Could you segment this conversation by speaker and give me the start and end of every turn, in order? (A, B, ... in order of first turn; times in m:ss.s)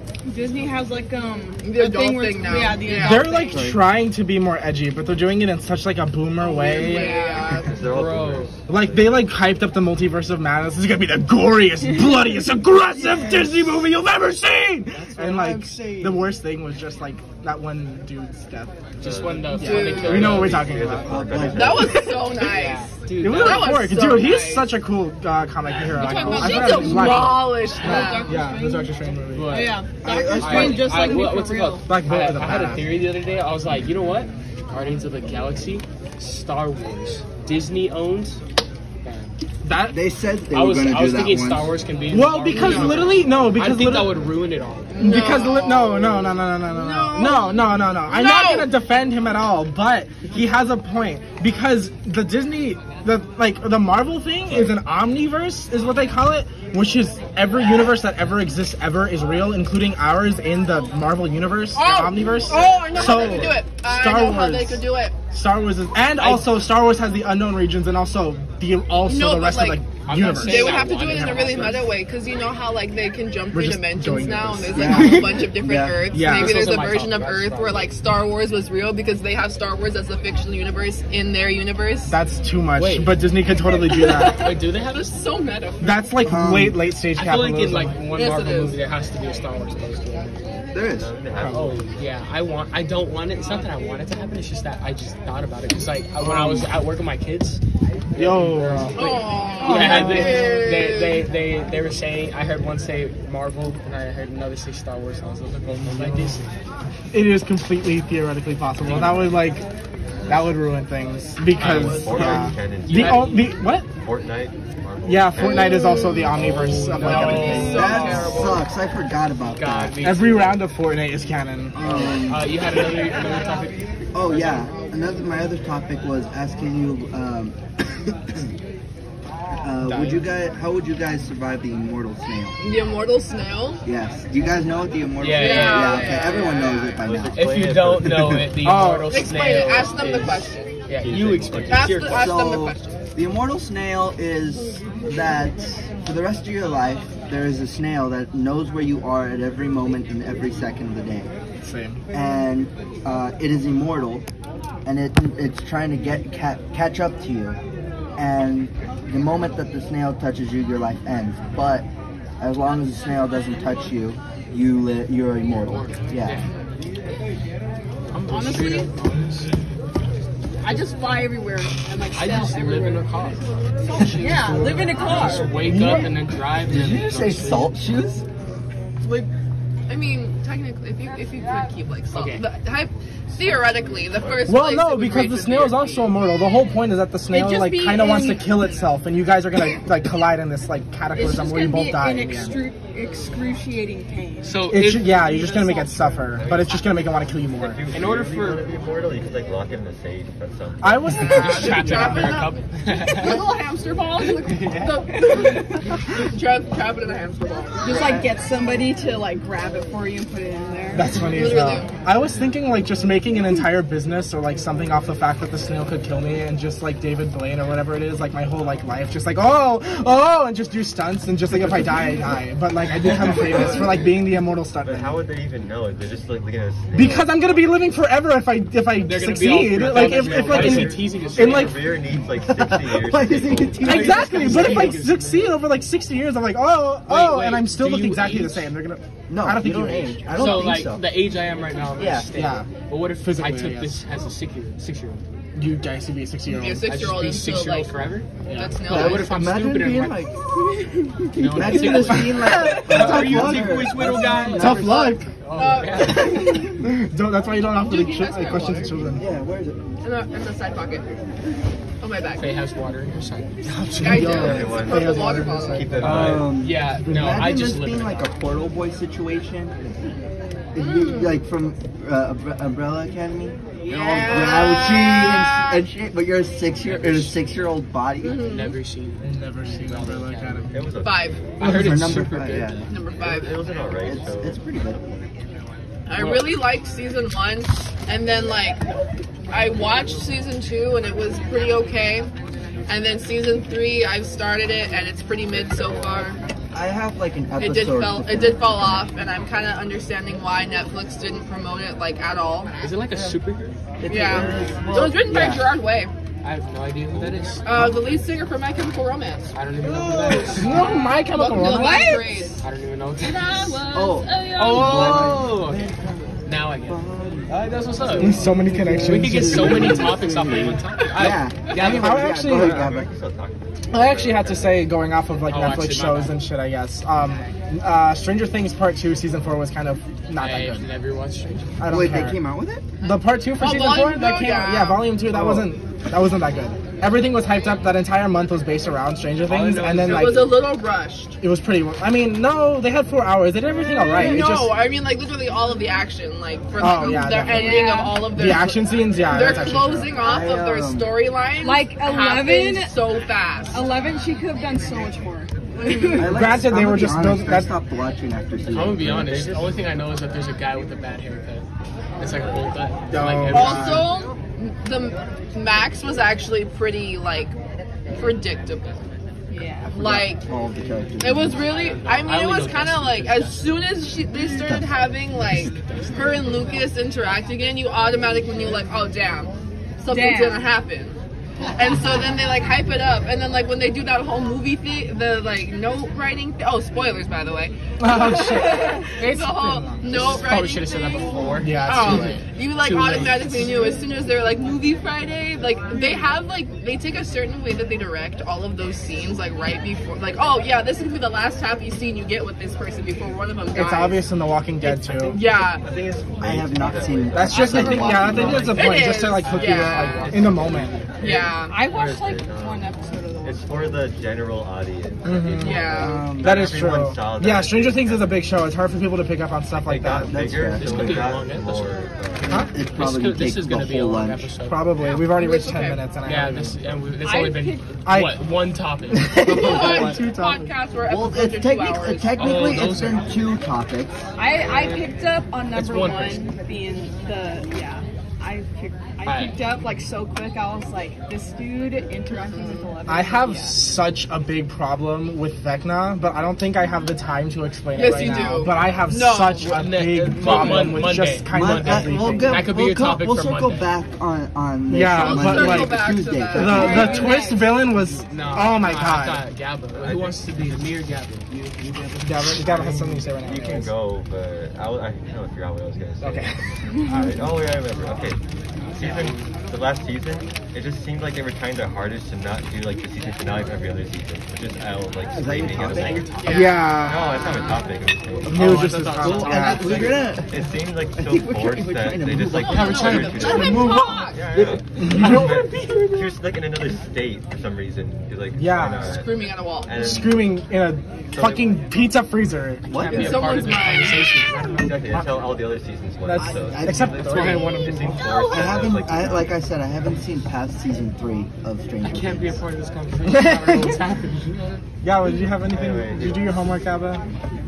0:00.3-0:03.8 A
0:01.6-0:03.4 B
0:03.0-0:07.2 C
0:03.5-0:03.8 D
0:06.4-0:07.6 A
0:06.4-0:07.7 B
0:07.5-0:09.3 E
0:07.7-0:08.5 F
0:08.7-0:21.8 C
0:12.9-0:13.9 D
0:14.9-0:16.3 D
0:19.0-0:20.8 F
0:19.3-0:22.2 E
0:19.6-0:20.5 B
0:21.0-0:22.0 D
0:21.5-0:24.8 B
0:22.4-0:23.9 F
0:23.2-0:29.7 C
0:25.9-0:28.5 B
0:26.0-0:26.6 F
0:26.8-0:27.1 D
0:27.8-0:31.9 A
0:29.3-0:38.4 F
0:30.0-0:31.1 D
0:31.8-0:33.0 C
0:39.0-0:39.3 F
0:39.6-0:40.0 C
0:39.9-0:41.8 D
0:40.5-0:45.2 F
0:42.1-0:44.3 C
0:42.5-0:43.2 B
0:44.9-0:48.7 B
0:45.0-1:11.9 C
1:01.7-1:05.2 B
1:02.5-1:03.6 E
1:06.2-1:06.6 F
1:09.1-1:22.2 B
1:10.0-1:11.9 F
1:13.5-1:15.5 C
1:14.7-1:16.0 D
1:16.1-1:16.8 C
1:16.2-1:17.9 F
1:22.1-1:24.5 C
1:22.8-1:23.2 F
1:23.7-1:26.0 B
1:24.2-1:25.1 F
1:25.8-1:28.0 C
1:26.2-1:26.8 D
1:27.2-1:30.6 F
1:28.2-1:28.8 B
1:30.7-1:31.1 D
1:30.9-1:32.0 E
1:31.4-1:31.6 C
1:31.5-1:37.6 F
1:36.2-1:36.7 D
1:38.2-1:40.6 C
1:38.2-1:46.5 F
1:39.0-1:41.2 B
1:45.7-1:46.4 C
1:47.1-1:49.6 C
1:48.8-1:49.2 F
1:50.3-1:50.5 E
1:50.3-1:53.9 C
1:51.5-1:56.8 E
1:51.6-1:53.5 F
1:55.0-1:58.1 C
1:55.4-1:58.6 B
1:56.3-1:58.6 F
1:57.0-2:00.0 D
1:59.6-2:00.6 F
2:00.0-2:02.2 C
2:01.7-2:02.6 D
2:01.8-2:04.7 F
2:04.1-2:08.5 D
2:09.6-2:12.6 D
2:09.9-2:10.3 F
2:12.6-2:13.8 B
2:13.8-2:17.4 D
2:15.2-2:16.4 F
2:15.3-2:16.8 B
2:16.5-2:18.5 E
2:17.3-2:22.3 F
2:18.0-2:18.5 D
2:18.6-2:19.4 C
2:19.1-2:20.7 B
2:20.9-2:22.0 E
2:21.7-2:23.0 B
2:22.1-2:31.3 D
2:31.6-2:32.0 C
2:32.1-2:34.3 D
2:34.8-2:37.6 D
2:38.2-2:41.9 D
2:42.4-2:46.4 D
2:45.6-2:46.5 F
2:48.1-2:49.5 F
2:48.3-2:48.9 A
2:50.6-2:53.2 A
2:52.1-2:57.7 F
2:53.8-2:55.7 A
2:55.2-2:56.2 D
2:56.7-2:58.2 D
2:59.9-3:06.2 B
3:02.1-3:02.5 F
3:03.5-3:04.6 E
3:04.5-3:12.6 C
3:07.3-3:08.5 A
3:11.1-3:14.7 A
3:13.0-3:13.4 B
3:14.4-3:15.3 F
3:14.7-3:17.8 C
3:15.3-3:21.4 E
3:17.9-3:18.7 F
3:20.8-3:22.4 C
3:21.1-3:22.5 B
3:21.3-3:23.5 F
3:23.1-3:28.3 B
3:24.4-3:25.0 F
3:25.2-3:25.7 A
3:27.8-3:31.2 A
3:30.9-3:45.2 C
3:31.2-3:31.9 B
3:43.1-3:44.2 E
3:43.5-3:43.8 D
3:44.8-3:47.5 E
3:46.9-3:52.0 C
3:49.0-3:52.0 F
3:49.9-3:54.0 E
3:50.2-3:51.0 D
3:52.4-3:55.0 D
3:53.8-3:55.6 F
3:53.8-4:00.8 C
3:57.1-3:58.7 F
3:59.3-4:01.2 D
4:00.3-4:05.2 F
4:02.0-4:02.3 D
4:02.3-4:04.0 C
4:05.6-4:07.0 C
4:06.5-4:07.9 B
4:06.8-4:10.2 F
4:08.5-4:09.4 B
4:08.9-4:10.4 D
4:11.2-4:15.2 D
4:11.3-4:16.5 F
4:12.1-4:15.3 C
4:15.6-4:16.8 B
4:16.5-4:16.8 D
4:16.6-4:19.3 C
4:17.7-4:19.0 B
4:19.1-4:19.8 D
4:20.0-4:21.0 B
4:22.0-4:22.5 B
4:22.4-4:23.7 F
4:23.7-4:26.4 C
4:24.0-4:25.9 B
4:24.1-4:26.6 E
4:26.0-4:28.3 F
4:26.1-4:30.0 D
4:27.1-4:27.3 C
4:30.8-4:38.4 D
4:30.8-4:31.4 B
4:33.9-4:35.8 B
4:36.8-4:37.5 F
4:38.2-4:38.8 B
4:38.4-4:40.8 F
4:39.2-4:41.0 C
4:40.7-4:41.8 E
4:41.0-4:41.4 B
4:41.6-4:42.9 F
4:41.6-4:42.9 D
4:41.8-4:42.2 C
4:42.9-4:43.8 B
4:43.1-4:45.2 E
4:44.1-4:45.0 D
4:46.1-4:48.8 B
4:46.2-4:46.5 F
4:49.5-4:52.3 B
4:52.9-4:56.4 B
4:55.5-4:56.4 E
4:56.7-4:59.1 D
4:57.6-5:02.7 B
5:02.8-5:03.8 F
5:04.0-5:05.6 D
5:04.1-5:06.1 B
5:04.3-5:04.9 E
5:06.4-5:07.8 F
5:07.6-5:09.5 B
5:09.5-5:11.0 F
5:10.0-5:10.5 D
5:10.5-5:12.2 C
5:10.7-5:12.6 B
5:11.6-5:12.6 A
5:12.6-5:13.8 F
5:13.2-5:15.4 B
5:13.9-5:23.1 D
5:14.5-5:15.9 F
5:16.4-5:18.4 F
5:18.2-5:20.5 C
5:19.0-5:22.7 F
5:21.8-5:22.9 C
5:22.5-5:24.8 E
5:23.9-5:30.9 C
5:25.5-5:26.4 F
5:30.4-5:31.8 F
5:31.8-5:32.4 C
5:31.9-5:32.9 D
5:33.0-5:40.6 C
5:33.6-5:35.1 B
5:35.3-5:35.7 D
5:39.5-5:40.6 F
5:40.0-5:41.4 B
5:41.4-5:44.8 C
5:44.0-5:53.9 B
5:46.8-5:50.1 C
5:47.5-5:48.3 A
5:50.2-5:51.1 D
5:51.6-5:53.0 A
5:53.7-5:56.1 A
5:55.8-5:56.3 B
5:56.1-5:59.3 D
5:56.2-5:57.7 C
5:58.7-6:01.7 F
5:59.0-5:59.8 E
6:02.2-6:04.1 F
6:02.4-6:02.7 E
6:03.1-6:04.1 C
6:03.5-6:07.5 B
6:08.1-6:09.1 B
6:09.5-6:09.9 A
6:09.9-6:10.4 B
6:09.9-6:11.6 D
6:11.2-6:21.2 B
6:11.6-6:13.7 F
6:14.5-6:14.9 D
6:15.5-6:16.8 F
6:20.1-6:20.7 A
6:21.7-6:44.2 B
6:28.0-6:30.1 C
6:28.5-6:29.1 A
6:30.1-6:33.8 F
6:31.6-6:32.4 C
6:43.7-6:45.4 C
6:44.8-6:45.8 B
6:45.8-6:48.7 E
6:46.4-6:48.8 D
6:47.3-6:51.1 C
6:48.0-6:50.5 B
6:48.2-6:51.2 F
6:51.2-6:51.8 B
6:51.2-6:52.9 E
6:51.6-6:54.1 A
6:53.4-6:58.4 E
6:55.2-7:00.4 C
6:55.6-6:56.3 B
6:56.0-6:56.8 D
6:59.8-7:02.7 E
7:00.3-7:01.4 D
7:00.8-7:02.0 F
7:02.4-7:04.5 D
7:02.5-7:02.7 C
7:02.9-7:04.9 F
7:04.7-7:06.8 C
7:05.0-7:06.0 B
7:06.2-7:09.5 F
7:07.2-7:08.0 A
7:08.0-7:08.4 C
7:09.2-7:10.2 D
7:09.4-7:10.7 C
7:09.4-7:12.4 B
7:11.1-7:14.2 D
7:12.4-7:13.4 F
7:14.4-7:23.8 A
7:14.6-7:15.1 F
7:15.7-7:16.4 F
7:19.2-7:19.6 F
7:22.3-7:22.9 B
7:23.1-7:32.6 C
7:27.9-7:29.7 B
7:29.6-7:33.9 F
7:30.4-7:37.2 D
7:34.9-7:39.4 C
7:35.2-7:37.4 B
7:36.6-7:37.8 A
7:37.2-7:42.7 F
7:40.0-7:40.9 E
7:42.2-7:43.9 C
7:42.6-7:48.4 E
7:46.2-7:46.6 C
7:48.8-7:49.5 F
7:48.9-7:59.0 E
7:55.3-7:56.3 D
7:55.9-7:57.6 F
7:56.4-7:57.8 B
7:56.5-7:57.6 C
7:58.5-8:00.2 C
7:58.5-8:00.3 F
7:59.2-8:03.1 D
8:00.4-8:10.6 E
8:02.5-8:04.4 B
8:02.6-8:06.2 F
8:03.6-8:04.0 C
8:05.0-8:06.0 C
8:08.5-8:09.2 C
8:09.0-8:10.0 B
8:10.0-8:13.5 C
8:11.3-8:12.0 E
8:12.9-8:13.5 D
8:12.9-8:15.3 F
8:13.1-8:14.4 B
8:14.8-8:19.6 E
8:15.1-8:15.6 C
8:16.2-8:18.4 C
8:16.4-8:17.6 D
8:17.3-8:17.9 F
8:18.2-8:18.8 B
8:18.4-8:22.6 D
8:22.0-8:24.8 F
8:23.3-8:24.0 C
8:25.0-8:27.2 C
8:25.6-8:26.7 E